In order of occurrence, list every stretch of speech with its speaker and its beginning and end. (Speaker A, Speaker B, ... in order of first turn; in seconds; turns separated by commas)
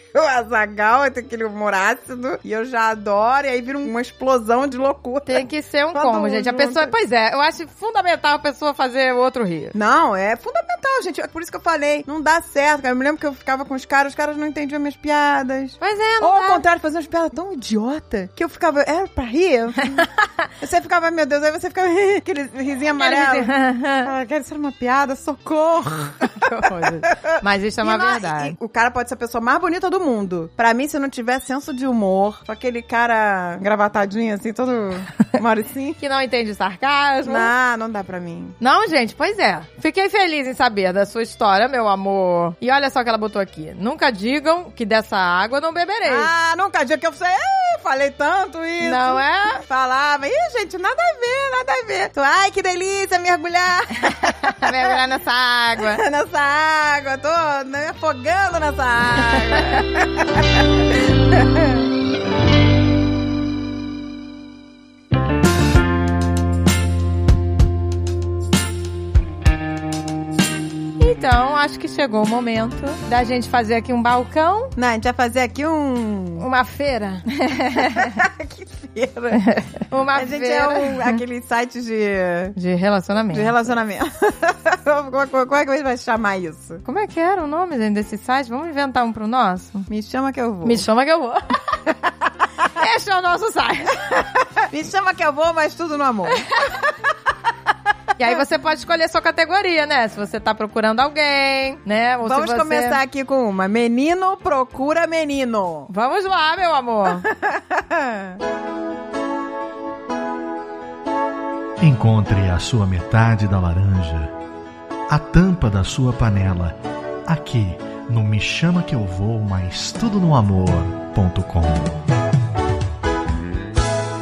Speaker A: 0.1-6.9, Speaker B: 5.3-9.8, Speaker A: 9.8-26.4, Speaker B: 15.8-16.6, Speaker B: 22.9-24.1, Speaker B: 26.3-28.6, Speaker A: 27.8-36.0, Speaker B: 36.0-37.5, Speaker A: 37.2-38.6, Speaker B: 38.6-46.3, Speaker A: 46.0-54.9, Speaker B: 48.8-49.6, Speaker B: 54.1-56.0, Speaker A: 55.8-61.9, Speaker B: 71.0-74.7, Speaker A: 74.8-76.5, Speaker B: 76.4-78.2, Speaker A: 77.8-79.4, Speaker B: 79.3-81.2, Speaker A: 80.1-82.6, Speaker B: 82.6-83.5, Speaker A: 83.3-86.8, Speaker B: 86.8-89.9, Speaker A: 89.9-90.8, Speaker B: 90.6-91.5, Speaker B: 92.7-94.2, Speaker A: 94.2-96.4, Speaker B: 96.3-96.8, Speaker B: 98.2-103.0, Speaker A: 102.2-105.9, Speaker B: 105.9-107.3, Speaker A: 107.3-108.4, Speaker C: 111.8-114.3, Speaker C: 115.1-122.0